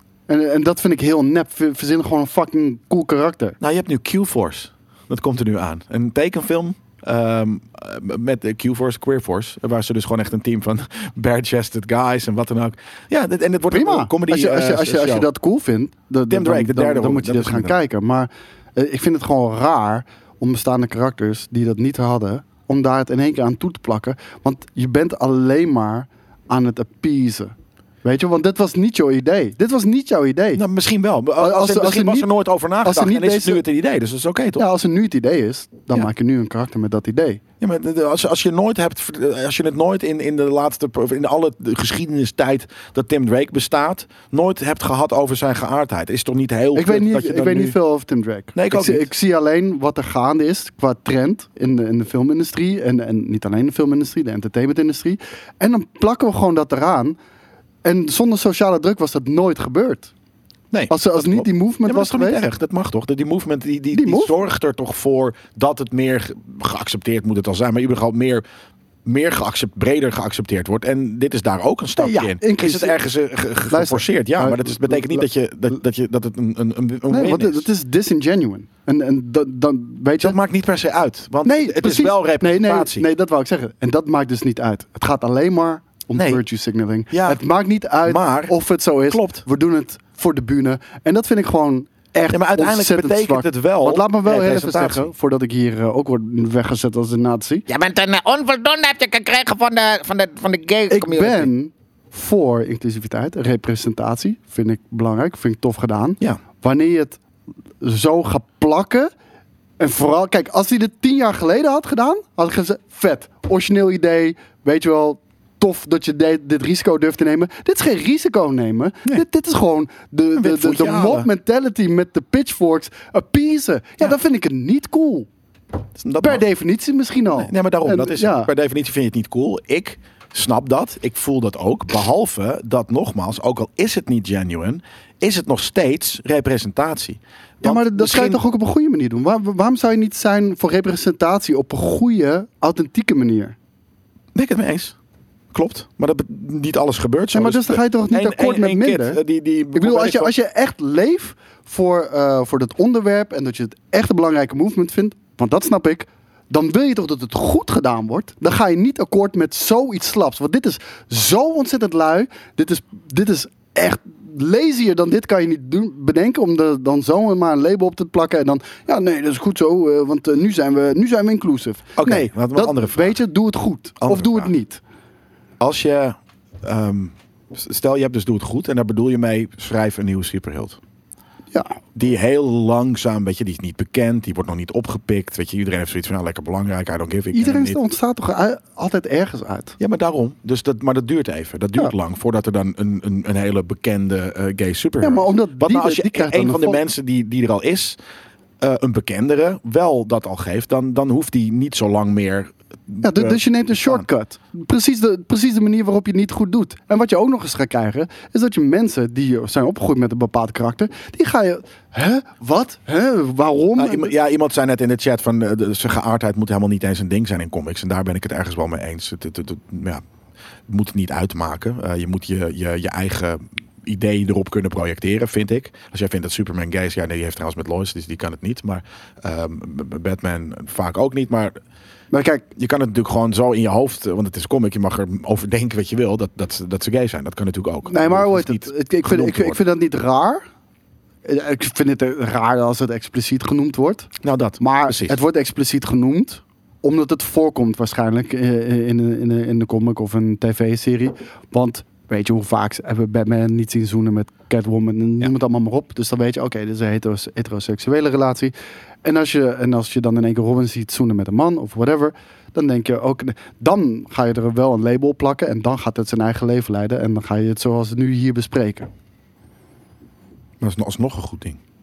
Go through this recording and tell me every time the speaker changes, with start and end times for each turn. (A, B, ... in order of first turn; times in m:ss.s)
0:00.3-0:03.6 A
0:03.6-0:15.3 B
0:13.7-0:30.6 A
0:16.3-0:17.8 B
0:30.5-0:34.6 B
0:31.4-0:32.3 A
0:32.8-0:33.6 A
0:34.6-0:37.4 A
0:37.6-0:47.8 B
0:46.7-0:57.2 A
0:48.6-0:49.1 B
0:57.8-1:00.1 A
1:00.7-1:08.4 B
1:00.9-1:02.5 A
1:03.9-1:04.3 A
1:09.0-1:17.7 B
1:12.0-1:13.0 A
1:13.7-1:15.3 A
1:17.1-1:20.4 A
1:20.2-1:23.1 B
1:21.4-1:37.6 A
1:26.2-1:26.4 B
1:27.1-1:27.4 B
1:28.0-1:29.4 B
1:32.3-1:35.1 B
1:37.7-1:41.5 C
1:40.9-1:47.2 A
1:47.8-1:49.1 A
1:49.8-2:05.3 A
2:00.4-2:01.3 B
2:06.0-2:06.4 B
2:06.2-2:08.5 A
2:07.4-2:18.4 B
2:17.6-2:23.6 A
2:24.3-2:25.0 B
2:25.5-2:30.3 B
2:27.3-2:29.2 A
2:29.7-2:54.8 A
2:52.0-2:53.2 B
2:54.0-2:54.5 B
2:55.6-3:00.8 B
3:01.5-3:01.8 A
3:02.0-3:07.8 B
3:07.3-3:09.8 A
3:09.8-3:18.0 B
3:15.0-3:16.8 A
3:18.6-3:24.1 B
3:23.0-3:34.1 A
3:33.8-3:40.0 B
3:40.7-3:51.6 B
3:52.1-3:52.4 A
3:52.6-3:59.6 B
3:57.9-4:00.4 A
4:01.2-4:28.9 A
4:04.2-4:05.2 B
4:30.6-4:31.6 B